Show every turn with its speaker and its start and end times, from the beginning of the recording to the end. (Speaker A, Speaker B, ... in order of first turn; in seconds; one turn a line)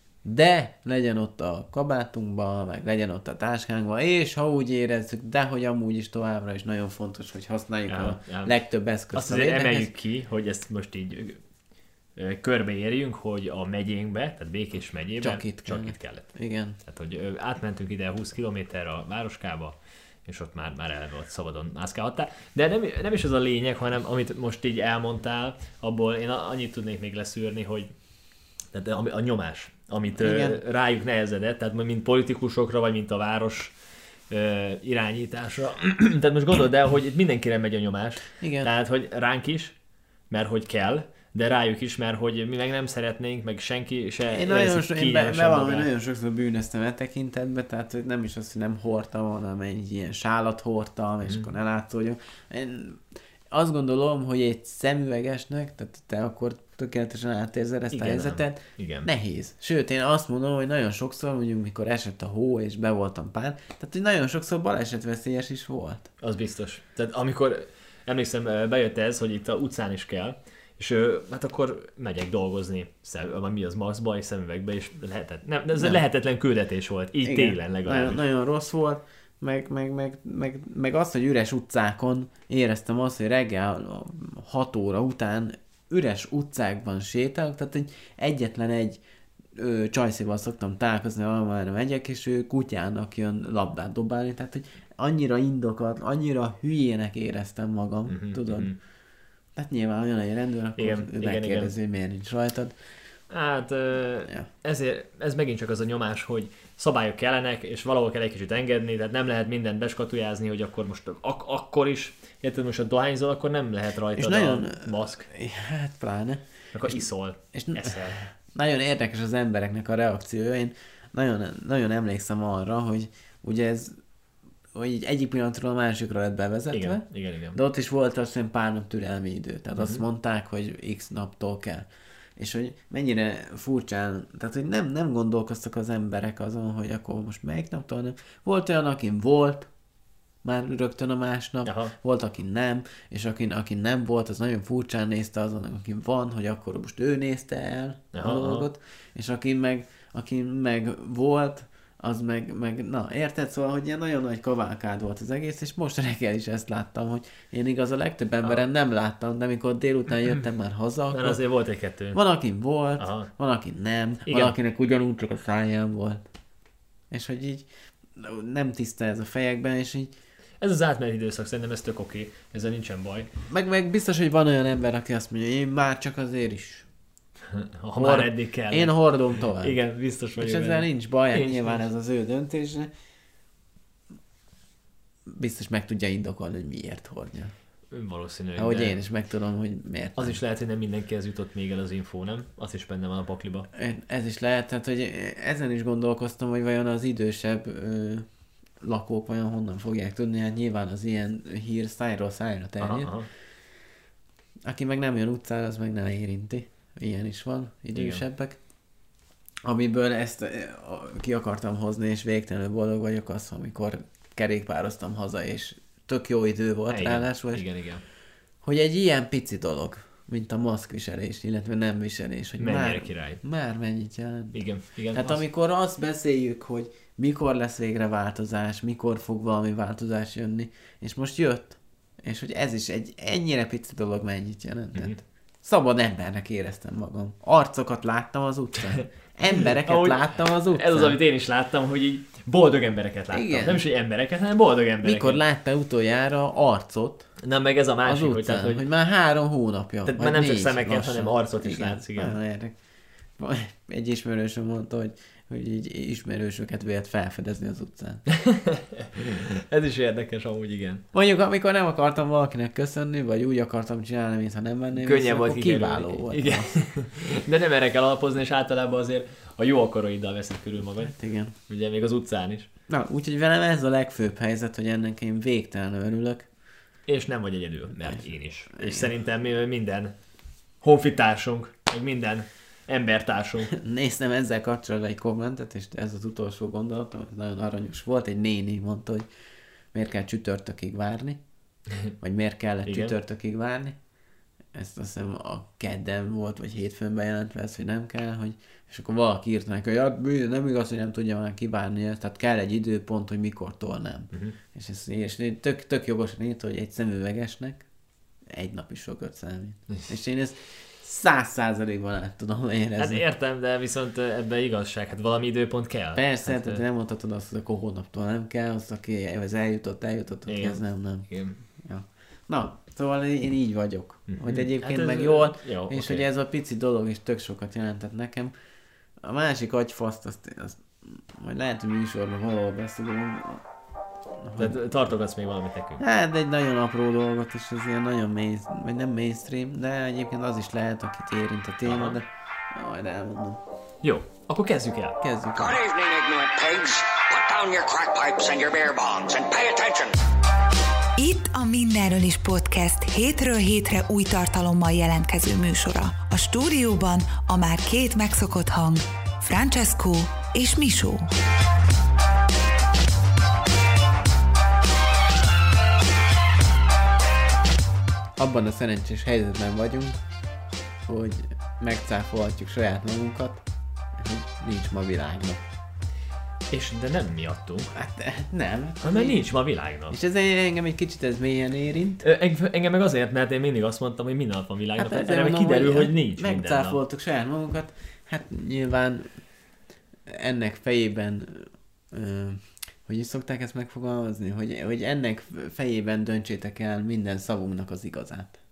Speaker A: 0.2-9.9
Speaker B: 7.9-8.6
Speaker B: 9.1-11.4
Speaker B: 12.2-16.3
Speaker A: 15.2-16.8
Speaker B: 16.8-27.9
Speaker B: 28.7-33.7
Speaker A: 30.1-30.6
Speaker B: 34.3-39.7
Speaker A: 38.4-38.7
Speaker B: 40.3-45.9
Speaker A: 44.3-66.1
Speaker B: 57.9-59.1
Speaker B: 66.2-78.2
Speaker A: 75.8-76.0
Speaker A: 77.2-89.0
Speaker A: 89.5-98.7
Speaker B: 98.1-98.8
Speaker A: 99.5-102.7
Speaker B: 100.8-101.7
Speaker B: 103.3-115.2
Speaker A: 114.2-116.4
Speaker B: 116.7-118.2
Speaker A: 117.5-123.9
Speaker A: 124.7-139.7
Speaker B: 126.7-127.6
Speaker B: 129.8-130.0
Speaker A: 140.4-161.4
Speaker B: 141.6-141.9
Speaker B: 148.1-148.7
Speaker B: 161.1-162.2
Speaker A: 162.1-166.2
Speaker B: 163.0-163.3
Speaker B: 164.3-164.6
Speaker A: 167.1-167.7
Speaker A: 168.2-170.1
Speaker B: 170.6-173.3
Speaker A: 173.5-176.9
Speaker B: 177.5-181.8
Speaker A: 178.0-179.8
Speaker A: 180.3-182.9
Speaker A: 185.3-187.5
Speaker B: 187.9-189.0
Speaker A: 188.6-190.4
Speaker B: 190.2-193.7
Speaker A: 193.7-198.2
Speaker A: 198.8-203.1
Speaker B: 202.8-203.3
Speaker A: 204.7-208.6
Speaker B: 207.9-208.2
Speaker A: 209.6-217.6
Speaker B: 216.9-218.0
Speaker A: 218.6-224.6
Speaker B: 222.6-223.4
Speaker B: 224.5-225.4
Speaker A: 225.1-241.2
Speaker B: 239.0-245.4
Speaker A: 243.3-243.8
Speaker A: 245.0-247.3
Speaker B: 247.4-248.8
Speaker A: 248.0-252.7
Speaker B: 250.1-252.4
Speaker A: 253.4-258.2
Speaker B: 258.3-261.0
Speaker A: 261.1-266.8
Speaker B: 264.9-271.1
Speaker A: 271.0-271.5
Speaker B: 271.7-272.7
Speaker A: 272.9-276.5
Speaker B: 277.1-280.1
Speaker A: 278.7-279.1
Speaker B: 280.8-283.7
Speaker A: 283.7-289.3
Speaker A: 289.9-291.4
Speaker A: 292.2-293.9
Speaker B: 292.9-293.1
Speaker A: 294.7-307.8
Speaker A: 308.5-313.2
Speaker B: 313.0-316.8
Speaker A: 316.1-321.3
Speaker B: 320.5-321.6
Speaker A: 321.8-328.5
Speaker B: 324.3-326.2
Speaker A: 329.2-333.6
Speaker A: 334.4-334.8
Speaker B: 334.6-336.0
Speaker A: 336.0-343.6
Speaker B: 341.8-342.2
Speaker B: 344.0-345.2
Speaker A: 345.2-345.8
Speaker C: 345.6-350.2
Speaker C: 351.2-360.6
Speaker D: 351.3-361.2
Speaker A: 368.4-370.2
Speaker A: 371.1-373.6
Speaker A: 374.2-375.6
Speaker B: 376.7-377.9
Speaker A: 377.9-379.4
Speaker B: 379.0-380.2
Speaker A: 380.1-382.2
Speaker B: 382.2-387.0
Speaker A: 385.0-389.3
Speaker A: 390.3-398.6